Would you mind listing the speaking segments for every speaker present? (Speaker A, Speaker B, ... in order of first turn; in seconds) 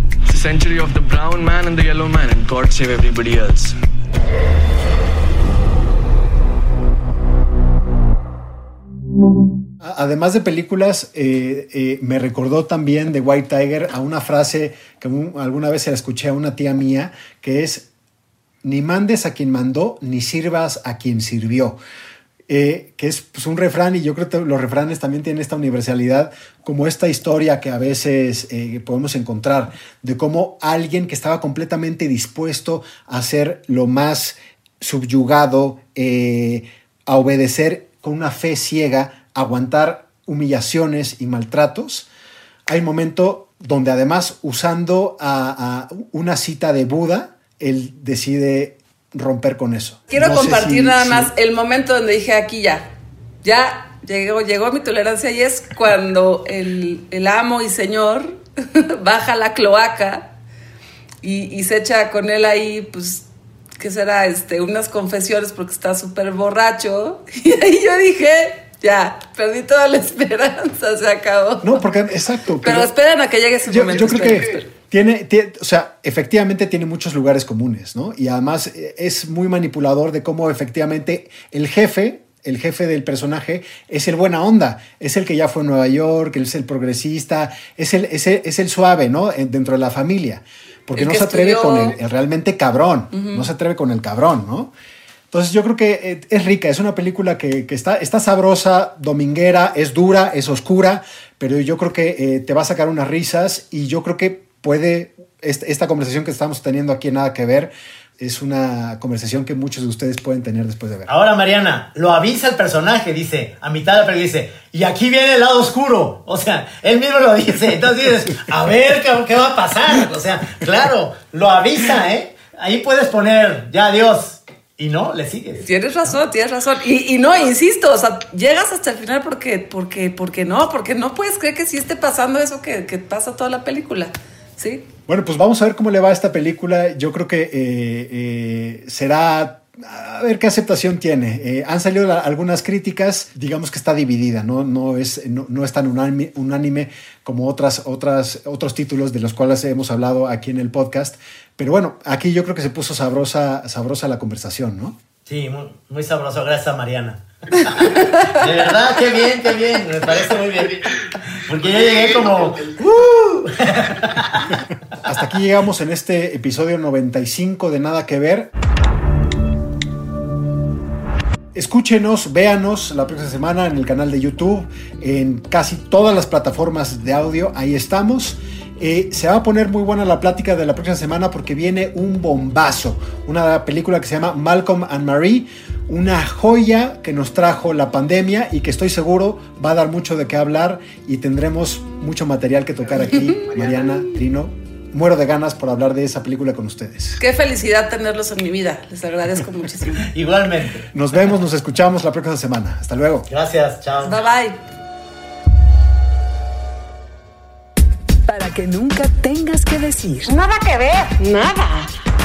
Speaker A: 0.3-3.8
Speaker B: 9.8-17.9, 18.6-21.8, 22.5-42.1, 42.7-51.3, 71.6-72.9, 73.7-94.7, 95.3-111.1, 135.1-155.0, 165.1-168.5, 171.5-197.2, 200.9-203.3
Speaker C: 50.1-52.9, 53.4-60.3, 61.2-63.3, 63.8-71.8, 72.6-74.7, 91.0-92.0, 93.1-93.5, 125.7-134.8, 197.2-200.0, 204.0-204.6, 210.3-211.9
Speaker D: 111.1-125.7, 155.3-164.5, 200.0-200.9, 203.3-204.2
Speaker E: 208.3-210.4